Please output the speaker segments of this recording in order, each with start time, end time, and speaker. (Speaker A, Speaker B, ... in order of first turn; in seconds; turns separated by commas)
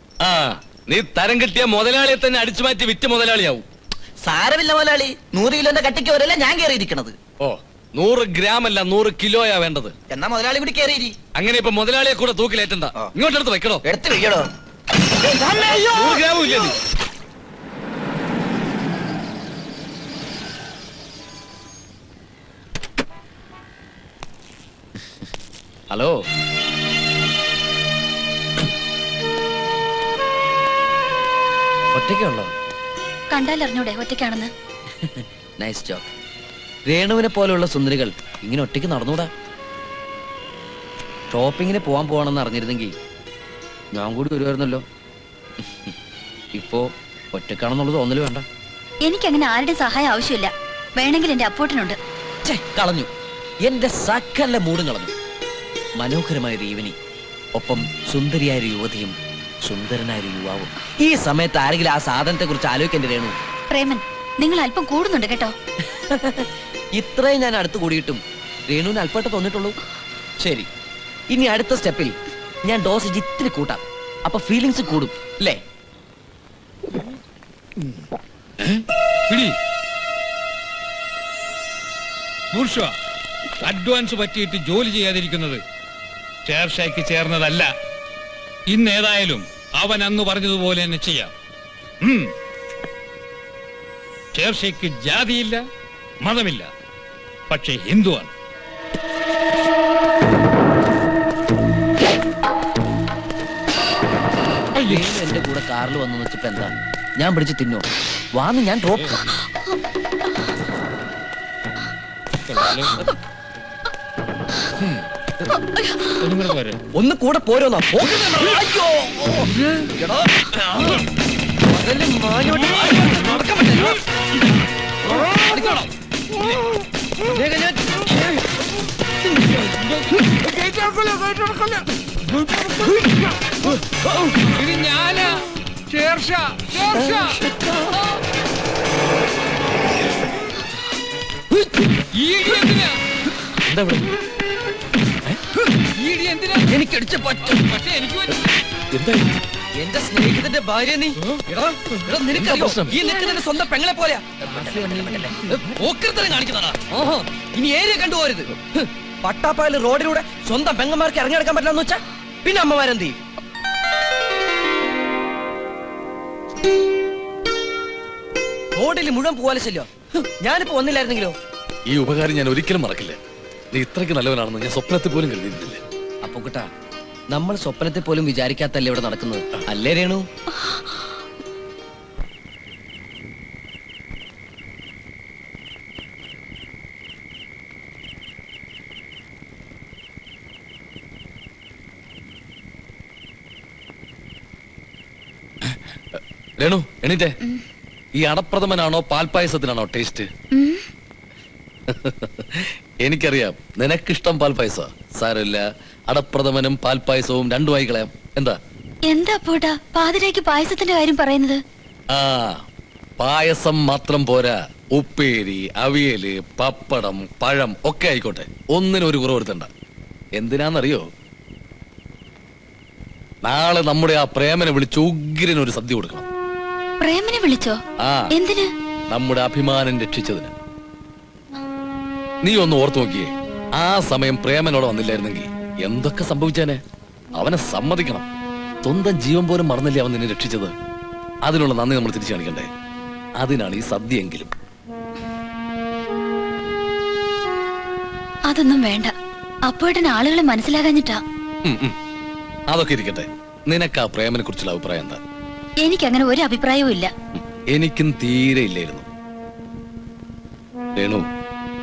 Speaker A: 0.2-3.6, Speaker B: 4.2-7.2, Speaker A: 7.4-9.9, Speaker B: 10.1-11.1, Speaker A: 11.4-13.8, Speaker B: 13.8-14.5, Speaker B: 15.3-16.2, Speaker A: 16.0-16.8, Speaker C: 31.9-32.5, Speaker D: 33.3-34.5, Speaker C: 35.2-36.1, Speaker C: 36.9-39.3, Speaker C: 41.3-43.0, Speaker C: 44.0-44.8, Speaker C: 45.7-45.9, Speaker C: 46.5-48.5, Speaker D: 49.0-52.0, Speaker C: 52.5-53.1, Speaker C: 53.6-55.1, Speaker C: 56.0-57.0, Speaker C: 57.6-59.1, Speaker C: 59.6-63.4, Speaker D: 63.7-65.5, Speaker C: 65.9-69.8, Speaker C: 70.4-70.7, Speaker C: 71.3-72.1, Speaker C: 72.7-75.6, Speaker E: 79.3-79.6, Speaker E: 82.5-82.9, Speaker E: 83.6-85.6, Speaker E: 86.5-87.7, Speaker E: 88.7-91.3, Speaker E: 92.0-92.3, Speaker E: 94.3-95.7, Speaker E: 96.2-96.7, Speaker E: 97.5-98.3, Speaker C: 104.7-107.8, Speaker C: 108.4-109.2, Speaker E: 112.6-112.9, Speaker E: 116.2-116.8, Speaker C: 117.0-121.0, Speaker C: 121.7-124.0, Speaker C: 125.1-125.9, Speaker C: 127.3-128.2, Speaker E: 129.8-131.0, Speaker C: 132.5-134.6, Speaker E: 134.5-135.4, Speaker E: 135.9-137.4, Speaker C: 136.9-138.1, Speaker E: 142.1-143.0, Speaker A: 143.7-144.0, Speaker E: 146.0-146.7, Speaker C: 146.6-147.7, Speaker E: 147.7-148.4, Speaker A: 148.9-149.2, Speaker C: 149.8-158.7, Speaker A: 152.3-153.0, Speaker D: 153.0-153.4, Speaker C: 159.2-163.2, Speaker C: 168.8-171.3, Speaker A: 171.9-173.2, Speaker A: 173.7-175.8, Speaker C: 176.2-176.7, Speaker C: 177.3-180.2, Speaker A: 195.7-197.3, Speaker A: 198.2-200.3, Speaker D: 200.5-200.8, Speaker A: 201.9-208.6, Speaker D: 209.1-211.6, Speaker A: 212.1-212.6, Speaker A: 213.2-219.7, Speaker A: 220.4-221.0, Speaker A: 223.4-226.3, Speaker D: 227.0-227.8, Speaker A: 228.0-228.3, Speaker D: 228.3-228.7, Speaker A: 229.1-230.5, Speaker A: 232.4-236.8, Speaker A: 237.4-238.3, Speaker A: 238.8-240.7, Speaker A: 241.4-242.7, Speaker A: 243.4-244.5, Speaker D: 248.5-249.1, Speaker D: 249.7-251.2, Speaker A: 251.6-251.9, Speaker A: 252.7-255.2, Speaker D: 255.8-257.1, Speaker A: 257.4-259.1, Speaker A: 261.0-261.2